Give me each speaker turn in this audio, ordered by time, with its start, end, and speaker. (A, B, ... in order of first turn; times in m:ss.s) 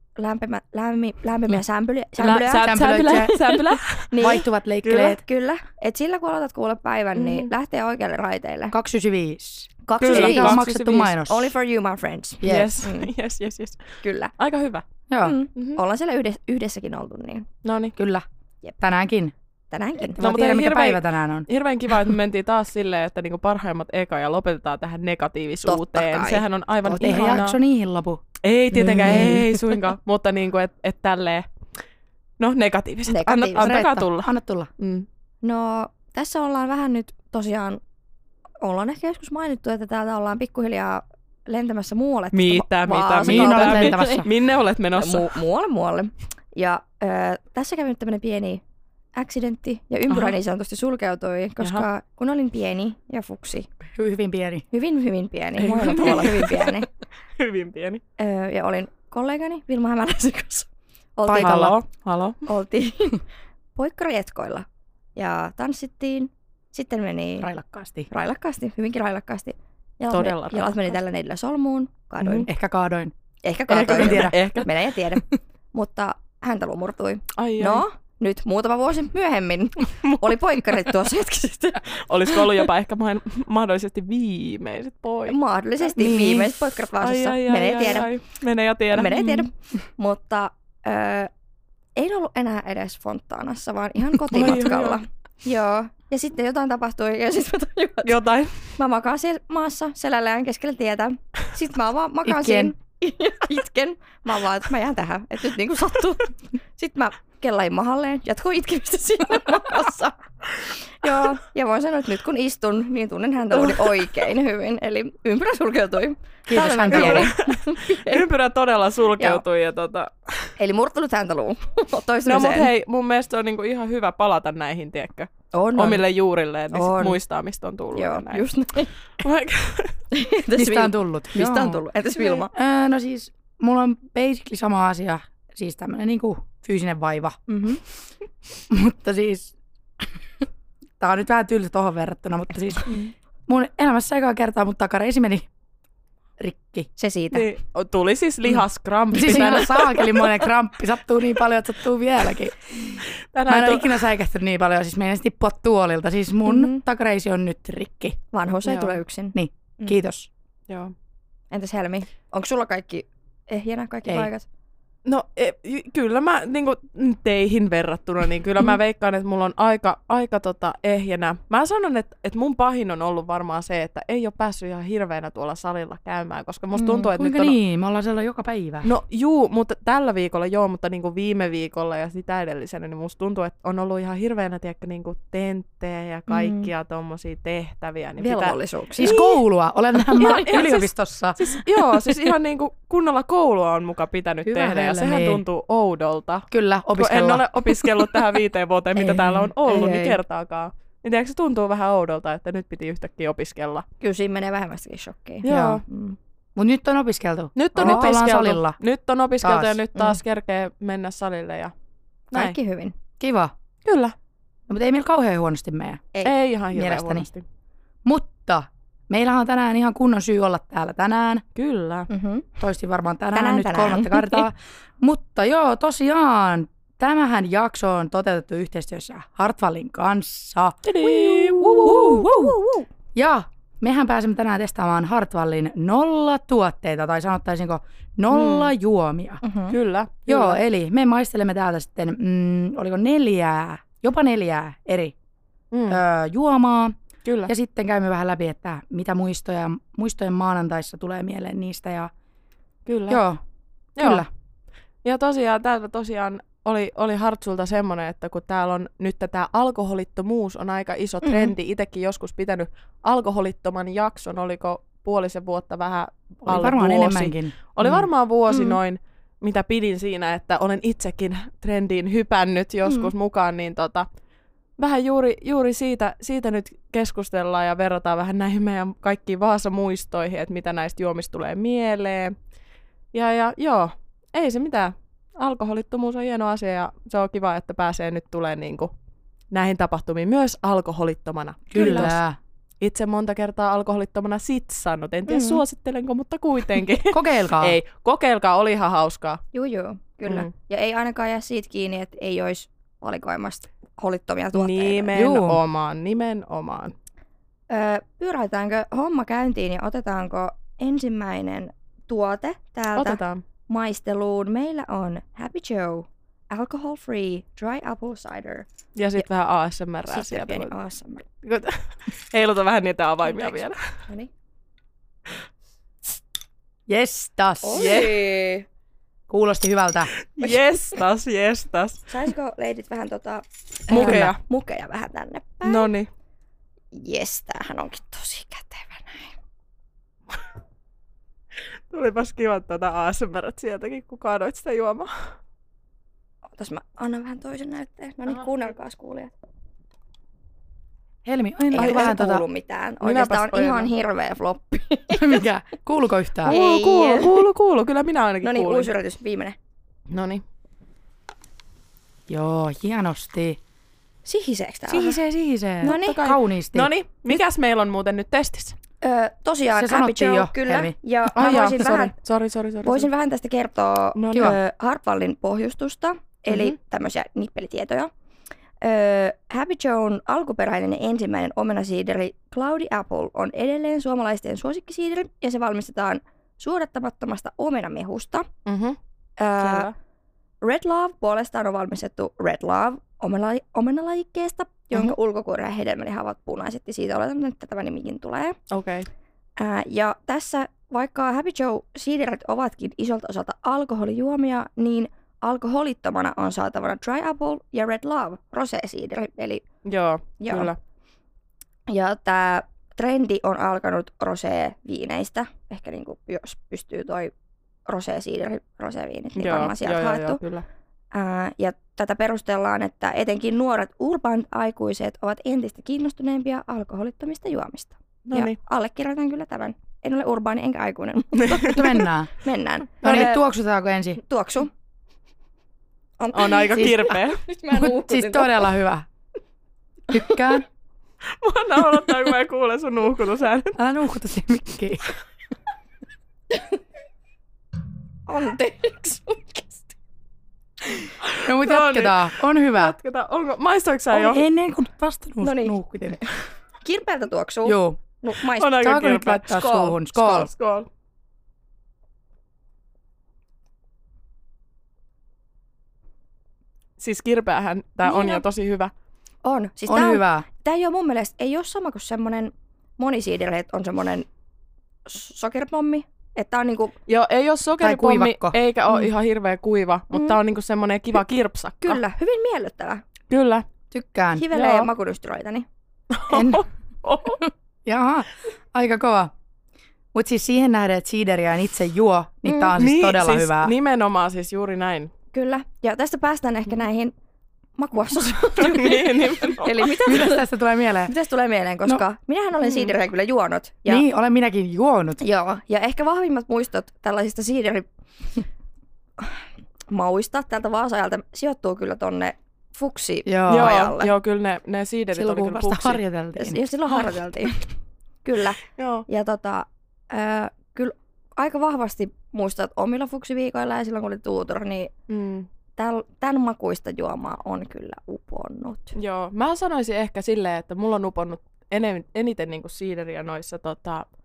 0:00.2-0:08.8 A
0:02.2-0:04.2 B
0:02.6-0:03.4 C
0:04.2-0:05.2 C
0:07.2-0:07.5 B
0:08.7-0:11.5 C
0:09.9-0:10.7 A
0:10.0-0:11.1 B
0:11.2-0:13.1 A
0:12.4-0:12.8 C
0:12.4-0:14.8 B
0:14.0-0:14.3 A
0:15.1-0:15.4 C
0:15.2-0:17.5 A
0:15.6-0:15.8 B
0:17.6-0:18.0 B
0:18.0-0:18.2 C
0:18.8-0:19.3 C
0:19.7-0:20.2 A
0:20.0-0:21.5 C
0:20.2-0:27.6 B
0:25.7-0:27.4 A
0:26.9-0:28.2 C
0:28.4-0:31.5 B
0:28.7-0:29.6 C
0:29.0-0:29.4 A
0:32.4-0:35.1 B
0:33.1-0:33.8 A
0:33.6-0:34.7 C
0:35.4-0:37.8 A
0:38.6-0:44.3 A
0:42.3-0:45.4 B
0:43.2-0:44.3 C
0:45.0-0:48.6 A
0:49.2-0:53.7 A
0:51.6-0:51.9 B
0:54.0-0:54.6 C
0:54.7-0:56.9 A
0:55.6-0:56.8 B
0:57.4-0:58.0 B
0:58.2-1:01.7 A
1:01.2-1:01.8 C
1:01.4-1:02.4 B
1:02.5-1:03.2 A
1:03.8-1:07.5 A
1:07.4-1:08.1 C
1:08.1-1:12.5 A
1:10.1-1:11.0 B
1:12.2-1:12.5 B
1:12.5-1:13.1 C
1:13.4-1:21.9 A
1:13.7-1:14.7 B
1:13.9-1:14.4 C
1:17.4-1:17.8 B
1:20.0-1:20.3 B
1:21.9-1:25.4 B
1:25.3-1:28.1 A
1:26.0-1:26.5 C
1:27.0-1:29.5 B
1:28.9-1:31.3 A
1:32.0-1:38.2 A
1:34.3-1:35.0 B
1:38.0-1:38.8 B
1:38.8-1:58.3 A
1:42.2-1:42.7 C
1:53.6-1:54.0 B
1:56.5-1:57.3 C
1:56.8-2:00.6 B
2:00.6-2:02.7 A
2:02.2-2:08.5 B
2:05.5-2:06.0 A
2:06.7-2:07.2 A
2:07.9-2:08.9 A
2:09.2-2:10.0 B
2:10.1-2:12.5 A
2:10.6-2:11.8 C
2:12.4-2:17.4 C
2:17.5-2:17.8 A
2:18.7-2:20.1 C
2:21.0-2:23.0 C
2:23.5-2:25.5 C
2:26.4-2:26.9 C
2:27.0-2:27.5 A
2:27.3-2:30.4 B
2:29.1-2:38.2 C
2:33.3-2:34.1 B
2:36.4-2:36.8 A
2:38.3-2:40.0 A
2:38.7-2:39.0 B
2:39.3-2:40.3 C
2:41.5-2:44.5 A
2:45.1-2:57.6 B
2:56.8-2:57.1 A
2:57.2-2:58.9 C
2:58.8-3:09.2 B
3:06.3-3:06.7 A
3:08.2-3:09.3 A
3:09.0-3:11.4 C
3:10.2-3:10.7 A
3:10.2-3:23.8 B
3:14.5-3:15.4 C
3:16.5-3:18.2 C
3:19.0-3:20.2 A
3:24.0-3:26.2 A
3:25.4-3:25.8 B
3:25.5-3:25.8 C
3:26.6-3:28.8 C
3:27.6-3:31.7 B
3:29.4-3:29.8 C
3:32.3-3:32.9 A
3:33.2-3:33.5 C
3:33.8-3:34.2 B
3:34.7-3:36.0 C
3:36.2-3:37.4 B
3:36.7-3:37.3 C
3:38.0-3:41.4 C
3:41.6-3:42.1 B
3:42.1-3:42.5 A
3:42.6-3:50.8 C
3:43.3-3:44.5 A
3:50.8-3:52.2 B
3:51.0-3:52.9 A
3:51.8-3:52.6 C
3:53.2-3:59.4 C
3:58.3-3:58.7 B
3:59.4-3:59.8 A
3:59.7-4:00.6 B
4:00.3-4:05.1 C
4:05.7-4:06.0 B
4:05.9-4:12.1 C
4:07.3-4:07.5 B
4:12.9-4:13.2 B
4:13.1-4:13.4 C
4:14.0-4:14.3 C
4:14.0-4:14.3 B
4:15.0-4:34.1 B
4:21.2-4:21.5 A
4:26.4-4:28.1 C
4:28.5-4:28.8 A
4:34.8-4:42.4 B
4:43.1-4:48.9 B
4:49.5-4:52.2 B
4:51.7-4:52.4 C
4:51.8-4:52.1 A
4:52.8-4:59.4 B
4:55.3-4:55.6 A
4:57.1-4:57.8 C
4:59.5-5:05.2 A
5:04.5-5:06.9 B
5:05.1-5:05.6 C
5:07.7-5:19.2 A
5:13.0-5:13.4 B
5:19.0-5:20.7 B
5:20.1-5:21.2 A
5:21.4-5:23.8 B
5:23.2-5:24.3 A
5:26.9-5:27.8 C
5:27.6-5:28.7 A
5:27.7-5:28.3 B
5:29.3-5:30.1 C
5:30.3-5:32.1 B
5:32.1-5:35.9 A
5:33.9-5:34.4 B
5:33.9-5:34.3 C
5:35.6-5:36.1 B
5:36.9-5:39.4 A
5:41.9-5:45.1 B
5:46.6-5:49.3 A
5:51.2-5:52.4 C
5:51.7-5:55.4 A
5:51.8-5:52.2 B
5:53.0-5:53.9 B
5:55.1-5:56.6 C
5:56.4-5:58.9 B
5:56.5-5:57.5 A
5:58.4-5:59.6 A
6:00.1-6:00.4 B
6:02.3-6:03.6 C
6:04.2-6:05.2 A
6:04.9-6:06.9 C
6:05.8-6:06.2 A
6:05.8-6:08.8 B
6:09.0-6:12.2 A
6:09.8-6:11.0 C
6:11.4-6:13.1 B
6:12.8-6:18.1 A
6:14.2-6:14.6 B
6:14.3-6:14.6 C
6:16.5-6:16.8 B
6:18.8-6:28.5 A
6:28.7-6:29.0 B
6:29.4-6:29.9 A
6:29.6-6:29.9 B
6:30.6-6:38.6 A
6:38.7-6:39.1 B
6:39.6-6:49.6 A
6:49.8-6:50.8 B
6:50.4-6:50.7 A
6:51.9-6:57.3 A
6:57.9-7:00.4 A
6:59.4-7:00.6 B
7:01.1-7:13.4 A
7:08.3-7:08.6 B
7:11.4-7:12.0 B
7:11.7-7:12.3 C
7:13.0-7:14.2 C
7:14.2-7:14.7 A
7:16.2-7:18.7 A
7:16.3-7:17.4 B
7:17.7-7:19.1 C
7:20.1-7:20.7 C
7:21.4-7:23.8 B
7:23.8-7:25.1 C
7:26.5-7:26.8 A
7:28.3-7:29.9 A
7:31.2-7:34.4 B
7:31.4-7:33.0 C
7:34.1-7:36.2 C
7:35.4-7:40.0 A
7:37.6-7:38.0 C
7:38.6-7:39.6 B
7:38.7-7:40.5 C
7:40.2-7:40.9 B
7:47.0-7:48.9 B
7:48.0-7:48.4 A
7:49.4-7:54.3 A
7:49.9-7:50.5 C
7:55.1-7:57.0 A
7:57.1-8:02.0 B
7:57.8-7:58.6 C
8:00.1-8:00.4 A
8:01.8-8:03.0 A
8:03.3-8:03.6 B
8:03.9-8:04.5 C
8:04.3-8:05.7 A
8:04.5-8:04.9 B
8:06.1-8:07.4 B
8:06.3-8:06.7 C
8:07.8-8:09.3 C
8:10.1-8:13.8 C
8:12.8-8:15.1 B
8:15.3-8:17.1 A
8:17.8-8:20.4 A
8:18.6-8:20.0 B
8:20.0-8:21.1 C
8:21.1-8:24.0 A
8:22.6-8:22.9 B
8:23.9-8:25.2 C
8:25.2-8:27.9 A
8:29.2-8:34.1 A
8:33.3-8:33.8 C
8:33.5-8:36.0 B
8:35.1-8:36.6 C
8:36.4-8:37.7 A
8:38.2-8:44.9 A
8:38.8-8:39.1 B
8:45.1-8:45.5 B
8:45.8-8:49.0 A
8:49.0-8:54.0 B